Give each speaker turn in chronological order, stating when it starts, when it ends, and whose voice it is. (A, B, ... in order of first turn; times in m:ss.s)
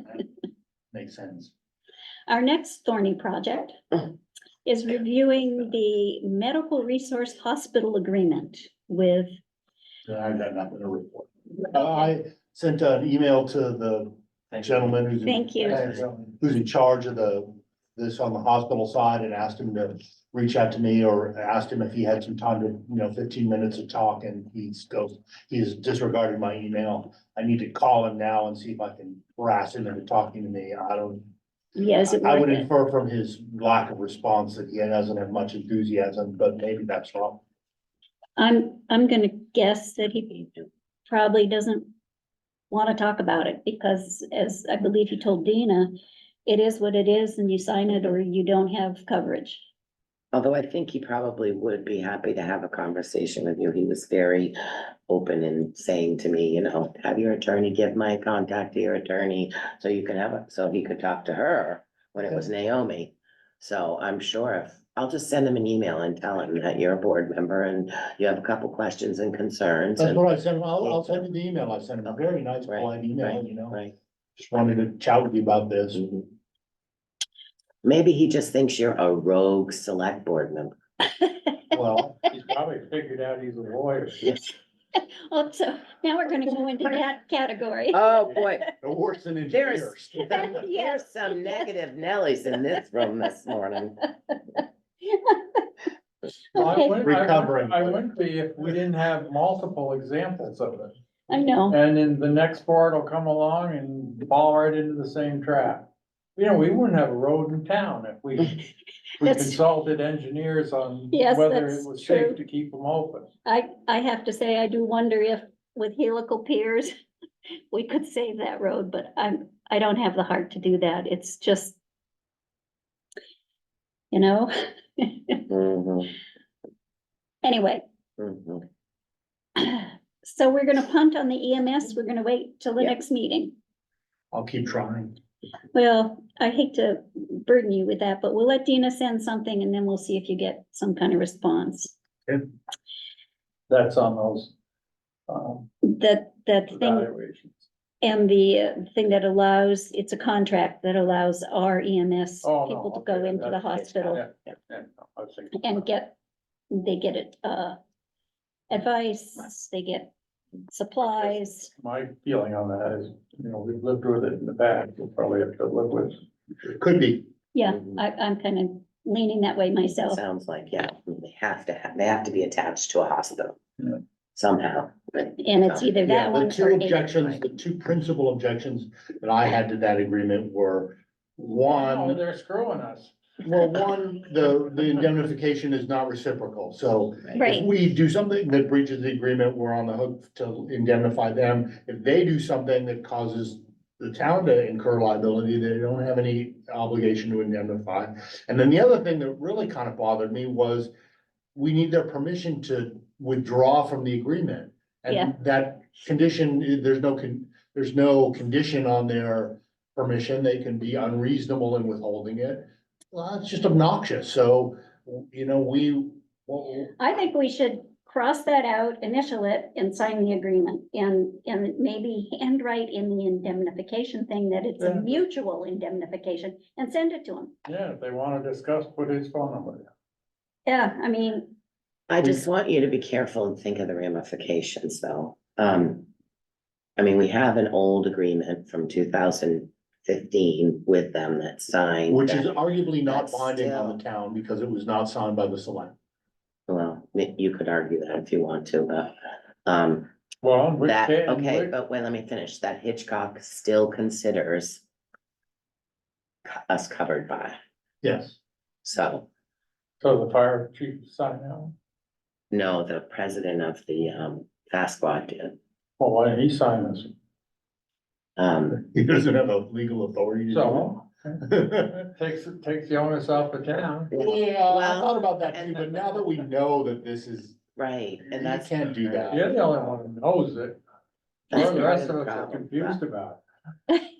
0:00.9-0:01.5 A
0:02.3-0:03.8 B
0:04.6-0:09.3 B
0:10.1-0:31.3 A
0:15.2-0:15.9 B
0:31.7-0:32.7 B
0:32.0-0:37.4 A
0:38.4-0:40.5 B
0:41.1-0:41.9 B
0:42.7-0:45.9 B
0:46.4-0:49.6 B
0:50.3-0:54.6 C
0:55.1-1:10.2 C
1:10.0-1:13.8 A
1:10.8-1:11.2 C
1:12.1-1:13.9 C
1:14.4-1:16.0 A
1:15.9-1:16.3 C
1:17.8-1:20.7 C
1:21.7-1:22.2 A
1:22.3-1:24.4 D
1:24.9-1:28.5 B
1:27.9-1:28.7 C
1:28.8-1:30.6 A
1:29.5-1:34.0 C
1:30.3-1:31.7 B
1:34.6-1:35.6 B
1:36.5-1:36.9 B
1:36.5-1:40.9 D
1:36.6-1:38.0 A
1:41.3-1:41.8 B
1:41.7-1:48.6 D
1:49.2-1:53.3 D
1:49.2-1:49.6 B
1:51.1-1:52.4 B
1:53.4-1:56.9 B
1:57.7-2:01.8 B
2:04.1-2:05.4 B
2:05.5-2:06.1 C
2:07.4-2:07.8 B
2:08.2-2:08.6 C
2:09.6-2:13.5 B
2:14.3-2:15.2 A
2:15.7-2:22.0 B
2:23.7-2:24.5 D
2:25.3-2:25.7 D
2:25.8-2:27.1 B
2:26.7-2:27.6 D
2:28.0-2:34.2 B
2:32.4-2:35.8 D
2:35.6-2:36.2 B
2:36.7-2:37.8 B
2:38.7-2:40.1 B
2:40.7-2:41.7 B
2:41.8-2:46.2 D
2:46.6-2:47.3 A
2:47.5-2:50.2 B
2:47.7-2:48.0 C
2:50.1-2:53.6 C
2:54.4-2:55.9 C
2:55.4-2:57.1 B
2:56.0-3:02.2 A
2:57.1-2:57.4 C
3:01.7-3:03.1 D
3:03.4-3:20.9 A
3:07.4-3:07.7 B
3:21.5-3:36.9 A
3:37.0-3:47.5 B
3:44.8-3:45.1 D
3:47.6-3:49.9 D
3:50.6-3:51.5 B
3:52.1-3:56.1 C
3:57.0-4:02.5 C
4:02.1-4:05.9 A
4:03.0-4:04.0 C
4:06.7-4:09.1 C
4:09.6-4:10.1 C
4:10.4-4:11.7 D
4:10.8-4:14.8 C
4:16.4-4:17.6 C
4:18.0-4:18.4 A
4:18.8-4:19.3 C
4:20.0-4:21.7 D
4:22.5-4:25.6 C
4:26.0-4:27.1 D
4:28.4-4:28.8 C
4:28.8-4:32.1 A
4:30.5-4:31.3 D
4:32.2-4:34.1 D
4:34.1-4:35.9 C
4:34.1-4:37.6 A
4:37.8-4:39.4 C
4:38.3-4:39.5 A
4:39.3-4:40.8 D
4:41.5-4:43.4 D
4:41.5-4:43.0 C